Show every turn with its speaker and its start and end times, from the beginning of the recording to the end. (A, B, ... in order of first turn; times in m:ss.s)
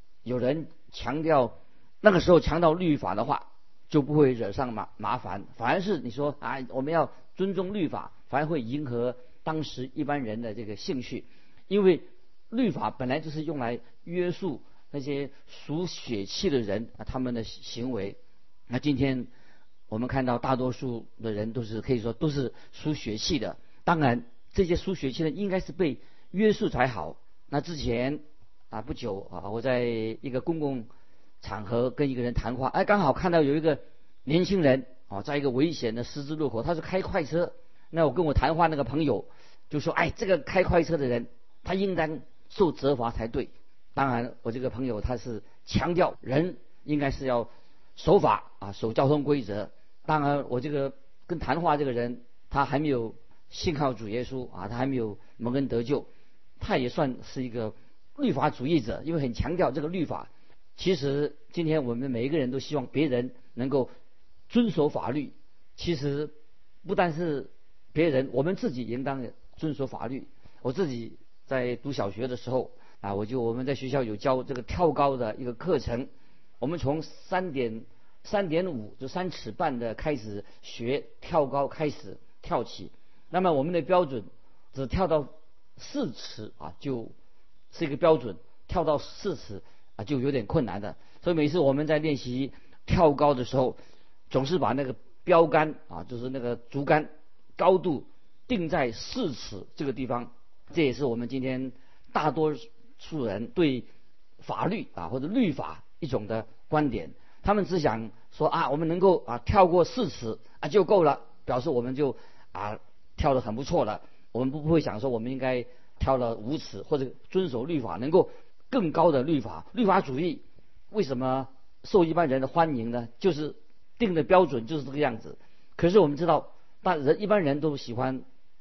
0:00.2-0:18.2 A
0:18.7-0:19.3 A
0:19.9-0:28.2 A
0:28.7-0:30.9 A
0:31.4-0:56.1 A
0:56.6-1:03.9 A
1:04.5-1:06.3 A
1:06.8-1:16.1 A
1:16.6-1:27.1 A
1:27.7-1:33.8 A
1:34.3-1:43.9 A
1:44.4-2:08.2 A